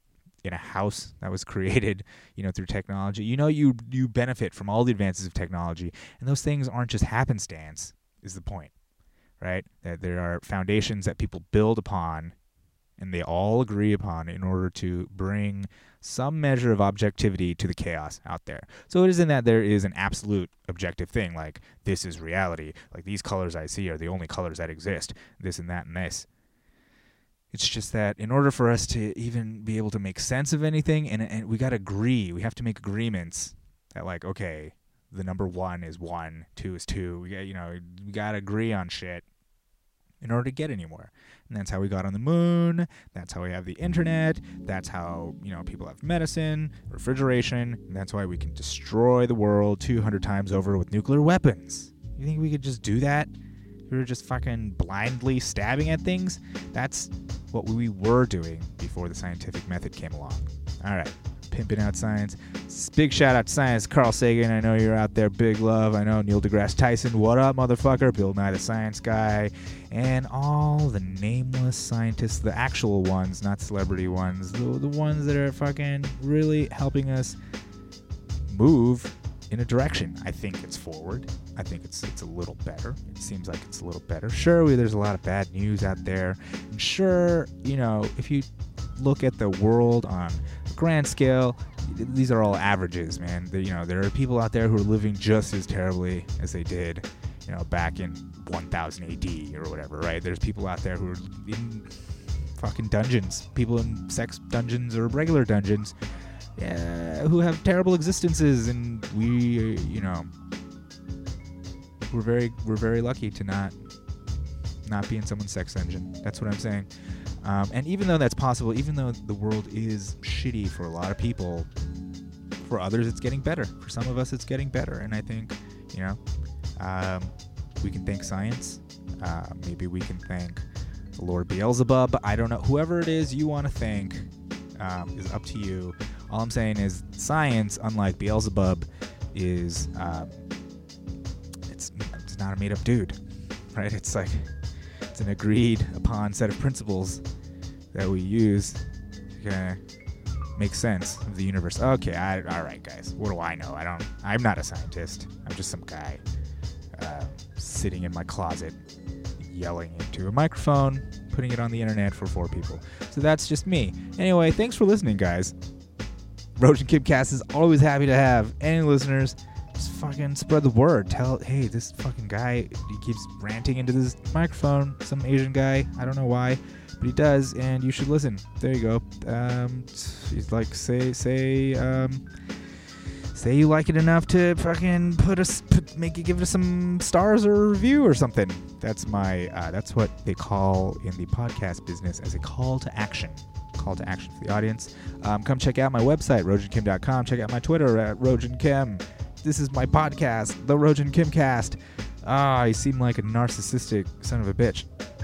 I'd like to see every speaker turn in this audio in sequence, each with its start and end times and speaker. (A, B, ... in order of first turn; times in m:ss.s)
0:00.4-0:08.7 A
0:09.4-0:12.3 A
0:13.0-0:26.2 A
0:27.5-0:39.2 A
0:40.2-0:53.3 A
0:53.9-1:17.4 A
1:18.5-1:41.9 A
1:42.6-1:45.9 A
1:46.6-1:50.3 A
1:52.1-1:53.7 A
1:54.8-1:56.9 A
1:57.4-2:01.7 A
2:02.6-2:06.2 A
2:06.8-2:10.6 A
2:11.2-2:20.4 A
2:21.7-2:23.2 A
2:23.7-2:24.5 A
2:25.1-2:27.2 A
2:27.9-2:28.8 A
2:29.4-2:29.8 A
2:30.6-2:36.2 A
2:37.0-2:38.8 A
2:39.4-2:45.5 A
2:46.6-3:02.3 A
3:03.3-3:24.8 A